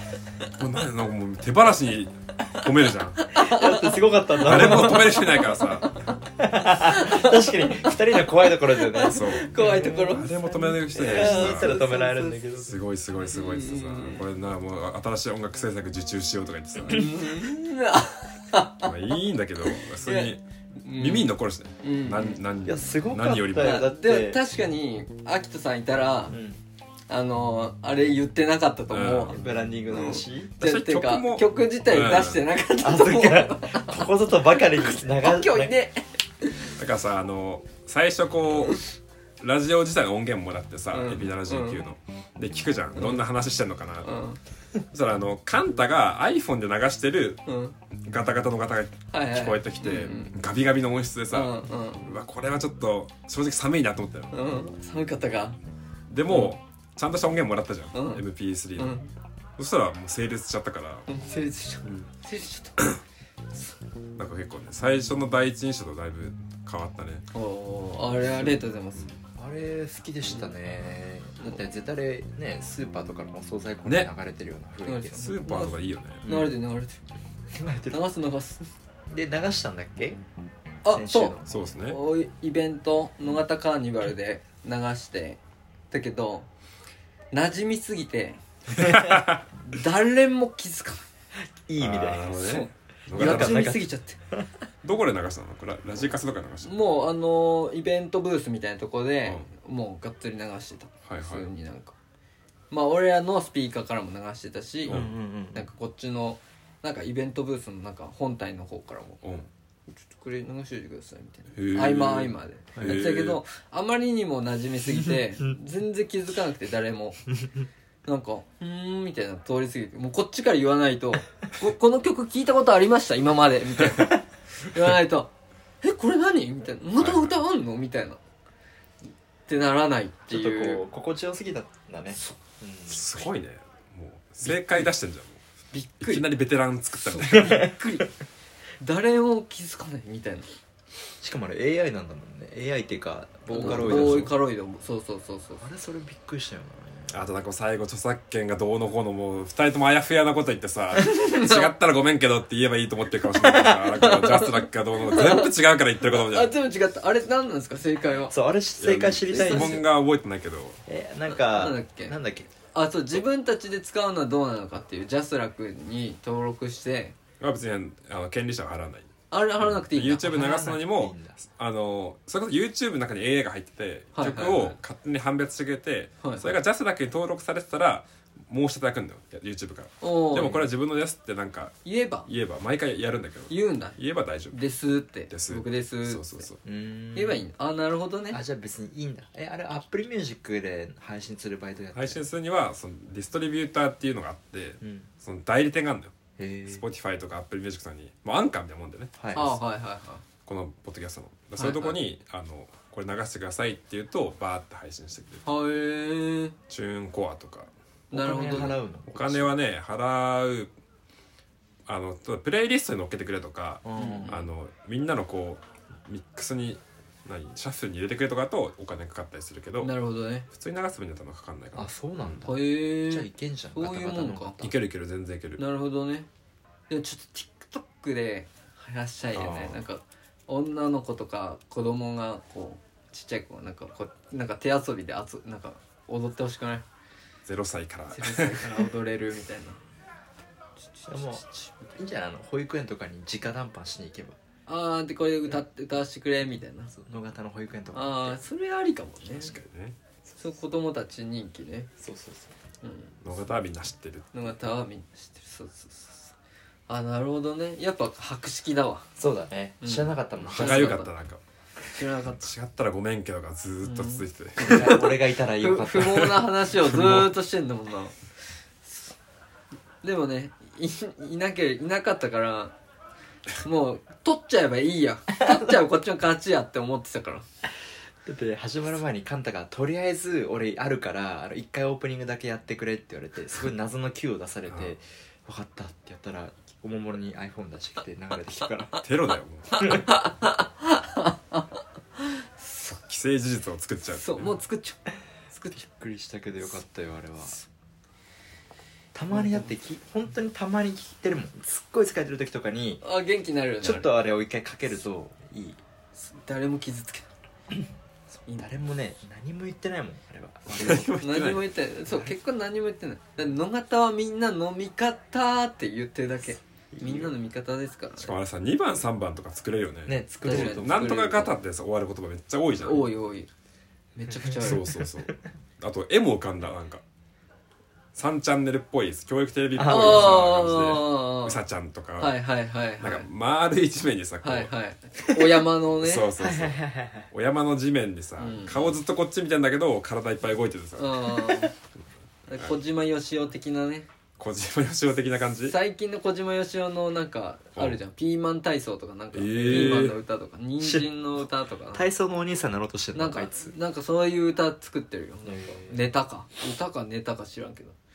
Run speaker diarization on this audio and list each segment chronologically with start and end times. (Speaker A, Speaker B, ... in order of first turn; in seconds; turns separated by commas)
Speaker A: 0.4-3.3, Speaker B: 3.2-5.8, Speaker C: 3.4-5.4, Speaker A: 4.4-6.1, Speaker C: 6.3-12.8, Speaker B: 6.6-10.3, Speaker A: 9.0-11.8, Speaker B: 10.9-12.4, Speaker A: 12.6-17.1, Speaker B: 13.3-14.2, Speaker B: 16.9-18.9, Speaker A: 18.8-23.8, Speaker B: 19.6-21.3, Speaker B: 21.8-22.4, Speaker C: 22.6-24.4, Speaker B: 23.6-26.4, Speaker C: 26.3-26.6, Speaker B: 27.1-34.0, Speaker A: 28.9-29.4, Speaker C: 29.3-30.6, Speaker A: 30.6-32.4, Speaker C: 32.8-35.7, Speaker B: 34.6-36.7, Speaker A: 36.8-38.8, Speaker A: 39.4-44.2, Speaker B: 40.9-41.8, Speaker B: 43.0-43.2, Speaker B: 44.0-44.4, Speaker A: 44.9-47.4, Speaker B: 47.5-47.7, Speaker A: 48.0-54.3, Speaker B: 49.1-50.3, Speaker B: 51.3-52.0, Speaker B: 54.3-55.6, Speaker A: 56.1-59.0, Speaker B: 56.3-56.5, Speaker B: 57.9-58.2, Speaker B: 58.8-59.1, Speaker A: 59.6-61.1, Speaker B: 61.1-62.8, Speaker A: 64.2-67.2, Speaker B: 67.3-69.0, Speaker C: 69.4-75.3, Speaker B: 74.8-77.0, Speaker A: 75.1-76.2, Speaker C: 76.2-76.5, Speaker C: 77.5-78.0, Speaker B: 77.9-78.7, Speaker C: 79.1-80.2, Speaker B: 80.8-86.5, Speaker C: 80.9-81.6, Speaker A: 81.5-82.0, Speaker B: 87.3-88.9, Speaker C: 88.8-89.1, Speaker A: 88.8-89.5, Speaker B: 89.6-91.0, Speaker C: 91.7-92.3, Speaker A: 91.8-93.8, Speaker B: 92.3-94.2, Speaker C: 93.1-94.5, Speaker A: 94.8-96.7, Speaker B: 96.6-101.9, Speaker A: 101.0-101.5, Speaker B: 102.7-105.0, Speaker A: 104.9-105.1, Speaker C: 104.9-105.7, Speaker B: 105.5-109.2, Speaker A: 109.2-109.5, Speaker B: 109.9-117.3, Speaker A: 111.5-113.4, Speaker C: 112.8-113.1, Speaker C: 114.9-115.2, Speaker B: 118.0-128.2, Speaker A: 127.0-127.4, Speaker B: 129.5-130.8, Speaker C: 130.3-133.2, Speaker A: 132.9-135.4, Speaker B: 134.4-134.8, Speaker B: 135.7-136.3, Speaker A: 136.0-137.7, Speaker B: 137.1-138.1, Speaker C: 137.3-137.6, Speaker B: 138.8-140.5, Speaker C: 141.2-144.3, Speaker B: 143.5-145.6, Speaker A: 143.6-144.3, Speaker C: 145.6-147.3, Speaker A: 147.1-156.5, Speaker B: 150.9-151.7, Speaker C: 153.4-153.8, Speaker B: 153.9-158.3, Speaker C: 158.3-159.8, Speaker A: 158.8-160.8, Speaker B: 159.3-159.8, Speaker C: 160.8-162.5, Speaker B: 161.3-162.2, Speaker B: 162.7-167.2, Speaker A: 167.4-184.6, Speaker B: 169.3-170.5, Speaker C: 170.2-171.4, Speaker B: 174.1-174.8, Speaker B: 180.0-180.6, Speaker B: 181.8-182.3, Speaker B: 183.5-184.0, Speaker B: 184.5-186.5, Speaker A: 185.3-186.6, Speaker C: 186.6-187.4, Speaker B: 187.1-188.4, Speaker C: 188.3-192.2, Speaker A: 191.9-196.1, Speaker C: 194.8-195.1, Speaker C: 196.4-196.8, Speaker A: 196.7-199.5, Speaker C: 199.2-199.6, Speaker B: 199.3-200.2, Speaker A: 200.4-205.4, Speaker B: 201.6-202.0, Speaker B: 205.4-206.6, Speaker A: 206.7-207.7, Speaker B: 208.1-208.8, Speaker C: 208.1-209.5, Speaker A: 209.1-210.7, Speaker A: 211.8-219.9, Speaker C: 213.8-214.4, Speaker B: 213.9-214.3, Speaker B: 219.8-220.4, Speaker A: 220.5-222.4, Speaker C: 221.7-224.8, Speaker B: 222.4-224.6, Speaker A: 224.6-225.6, Speaker B: 225.6-226.3, Speaker B: 226.9-236.8, Speaker A: 229.3-229.8, Speaker A: 237.4-238.8, Speaker B: 238.1-239.8, Speaker B: 240.8-242.0, Speaker C: 241.1-241.4, Speaker C: 241.9-244.4, Speaker B: 244.7-246.9, Speaker C: 246.9-248.4, Speaker B: 247.9-249.6, Speaker A: 249.3-250.0, Speaker B: 250.4-251.9, Speaker C: 252.0-252.5, Speaker B: 252.8-253.2, Speaker A: 253.2-254.4, Speaker B: 254.3-256.3, Speaker B: 256.9-259.1, Speaker C: 259.2-261.0, Speaker B: 259.8-261.1, Speaker A: 260.4-261.4, Speaker B: 261.9-262.4, Speaker A: 262.4-265.0, Speaker B: 263.8-268.2, Speaker C: 264.6-266.3, Speaker A: 266.0-267.3, Speaker B: 268.8-269.1, Speaker B: 270.0-272.7, Speaker B: 273.6-277.4, Speaker C: 278.2-289.0, Speaker A: 289.0-290.1, Speaker B: 289.8-292.9, Speaker A: 293.1-294.5, Speaker B: 294.1-295.8, Speaker C: 295.7-297.6, Speaker C: 299.1-303.0, Speaker B: 299.3-299.7, Speaker B: 303.0-304.1, Speaker C: 303.8-305.8, Speaker B: 306.1-307.3, Speaker C: 308.3-311.1, Speaker A: 310.7-311.7, Speaker B: 311.2-318.3, Speaker C: 316.9-317.3, Speaker A: 318.2-323.1, Speaker C: 320.1-321.1, Speaker B: 320.4-321.5, Speaker B: 322.8-323.5, Speaker B: 324.1-325.0, Speaker C: 324.4-325.3, Speaker A: 324.6-327.0, Speaker A: 328.1-332.4, Speaker C: 329.7-330.8, Speaker B: 329.8-331.6, Speaker B: 332.2-333.3, Speaker A: 333.0-334.7, Speaker B: 334.4-336.3, Speaker A: 336.0-336.8, Speaker C: 336.4-337.3, Speaker A: 337.3-341.5, Speaker B: 338.4-339.0, Speaker B: 341.0-341.7, Speaker B: 342.5-344.1, Speaker A: 344.4-345.8, Speaker B: 345.6-352.1, Speaker A: 349.3-350.2, Speaker C: 349.6-350.1, Speaker C: 350.8-351.1, Speaker C: 351.9-353.8, Speaker B: 353.1-357.9, Speaker C: 355.4-356.1